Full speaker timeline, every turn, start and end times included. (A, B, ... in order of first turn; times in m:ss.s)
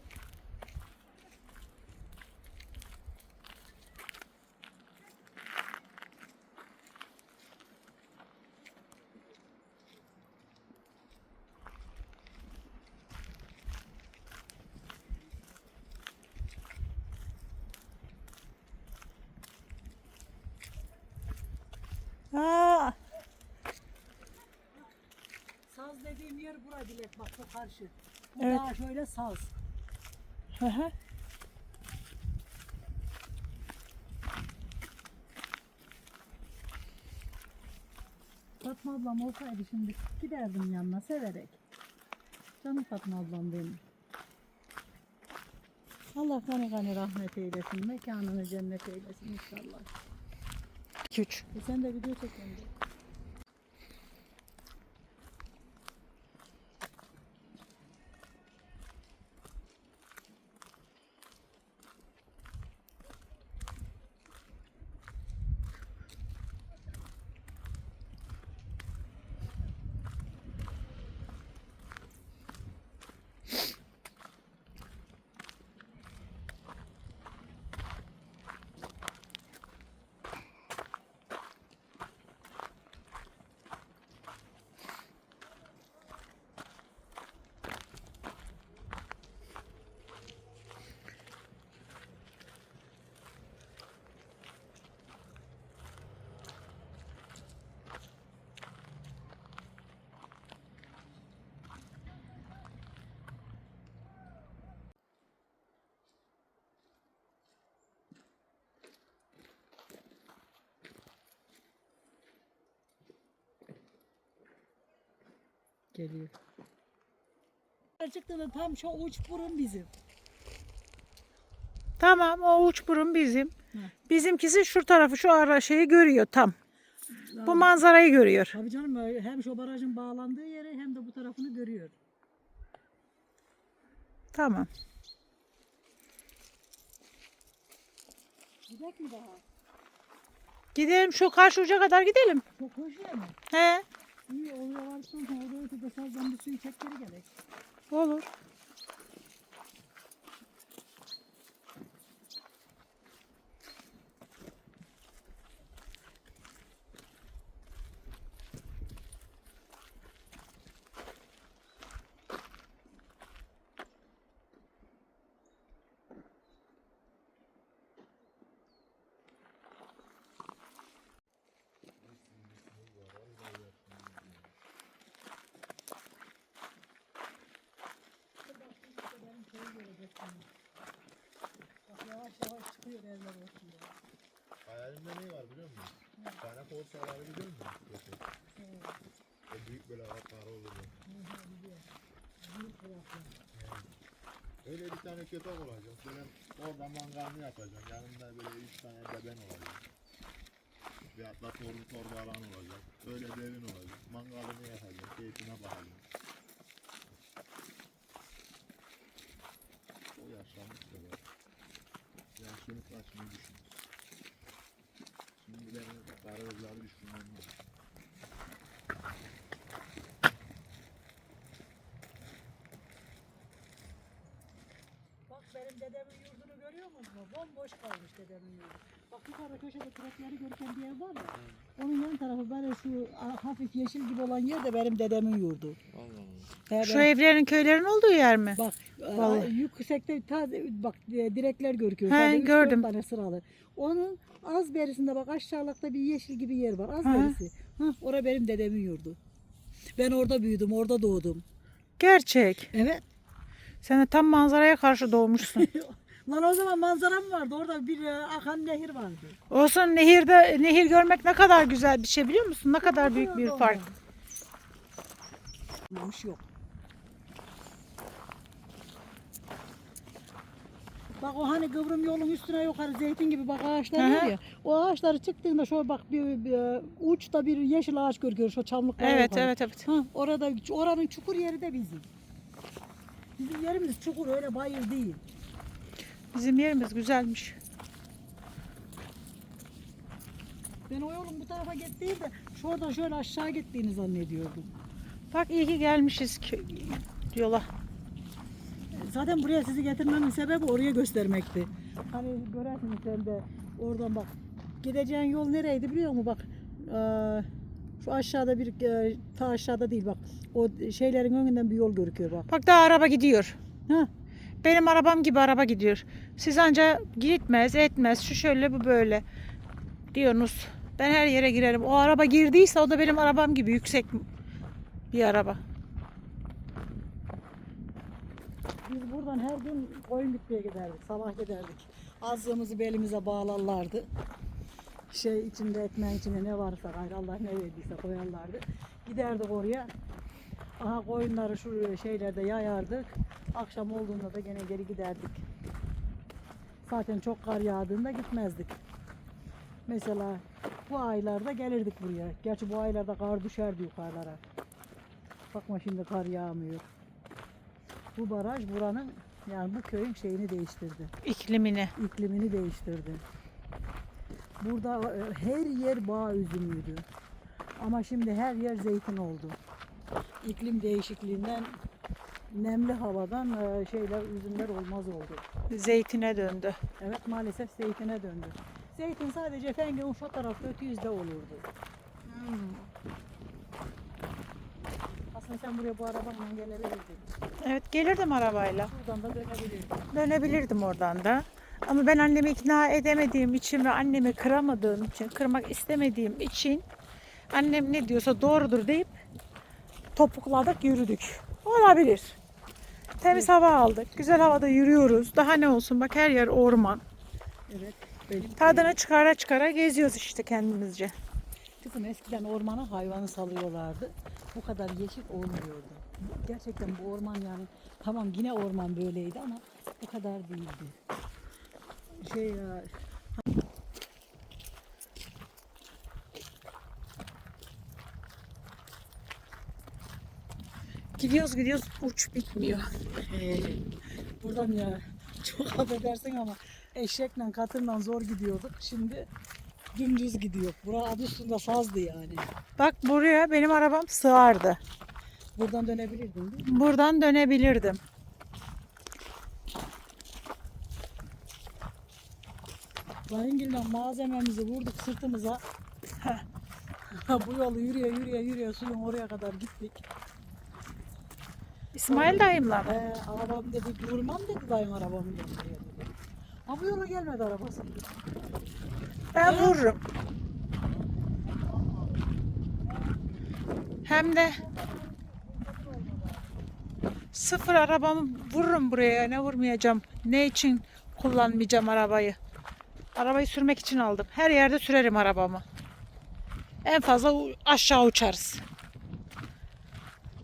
0:22.3-0:23.0 A
0:25.7-0:29.5 B
0:30.6-0:30.9 A
0:38.6-0:41.6 B
0:42.6-0:43.8 B
0:46.2-0:49.9 B
0:51.1-0:51.4 A
0:51.5-0:52.7 B
1:56.0-1:56.3 B
1:58.0-1:59.9 B
2:02.0-2:03.5 A
2:04.1-2:06.6 A
2:07.1-2:07.8 B
2:07.4-2:08.6 A
2:08.5-2:12.0 B
2:14.3-2:14.7 A
2:18.7-2:19.4 B
2:20.8-2:22.4 A
2:22.5-2:23.4 B
2:23.5-2:23.8 A
2:24.3-2:27.3 B
2:27.9-2:28.3 A
2:52.0-2:54.6 C
2:58.4-3:00.5 B
3:01.9-3:03.9 B
3:04.7-3:08.2 C
3:08.6-3:09.0 B
3:09.5-3:11.0 C
3:11.1-3:11.9 B
3:12.4-3:13.4 B
3:13.5-3:13.9 C
3:14.6-3:19.9 C
3:21.1-3:26.0 C
3:30.1-3:31.2 C
3:32.4-3:33.8 C
3:35.4-3:37.5 C
3:45.3-3:55.8 B
3:55.9-3:56.5 C
3:56.7-3:57.1 B
3:56.8-3:58.6 A
3:58.5-4:09.2 B
3:59.2-3:59.5 A
4:02.1-4:02.8 A
4:07.0-4:07.4 A
4:10.0-4:11.4 B
4:12.0-4:12.7 A
4:12.7-4:13.0 B
4:13.8-4:15.6 A
4:15.4-4:19.4 B
4:19.5-4:23.8 A
4:22.8-4:24.0 B
4:25.9-4:26.4 B
4:31.2-4:42.1 B
4:34.0-4:34.4 A
4:39.0-4:39.9 A
4:43.4-4:45.2 B
4:46.3-4:47.6 A
4:50.9-4:54.7 B
4:55.3-4:57.7 A
4:58.9-5:07.5 B
5:08.0-5:12.5 B
5:12.5-5:14.1 A
5:14.6-5:19.2 A
5:20.1-5:24.3 A
5:25.1-5:25.6 A
5:28.8-5:34.1 B
5:35.1-5:39.9 B
5:40.8-5:45.5 B
5:46.8-5:48.8 B
5:49.9-5:54.4 B
5:55.5-5:56.9 B
5:58.2-6:01.1 B
6:01.2-6:01.9 A
6:02.0-6:03.2 B
6:04.6-6:07.1 B
6:07.8-6:09.6 B
6:10.4-6:11.8 B
6:12.5-6:15.4 B
6:15.7-6:16.8 A
6:17.0-6:21.7 B
6:22.3-6:22.9 A
6:25.3-6:27.3 B
6:27.6-6:28.9 A
6:28.4-6:30.0 B
6:30.1-6:36.9 A
6:37.5-6:39.1 A
6:40.2-6:42.4 A
6:43.2-6:47.0 A
6:47.7-6:49.0 B
6:48.6-6:51.1 A
6:51.8-7:01.0 B
7:02.1-7:02.9 B
7:11.2-7:12.9 A
7:13.1-7:13.9 B
7:14.4-7:19.3 B
7:19.9-7:22.5 B
7:22.8-7:24.8 A
7:25.6-7:26.8 B
7:26.6-7:28.0 A
7:33.3-7:35.6 B
7:37.1-7:40.0 B
7:41.9-7:42.9 A
7:42.1-7:46.1 B
7:46.7-7:48.1 B
7:49.3-7:50.0 A
7:49.4-7:49.9 B
7:54.1-7:54.6 A
7:54.1-7:56.5 B
7:57.3-8:02.4 A
8:03.2-8:05.6 A
8:06.8-8:08.6 A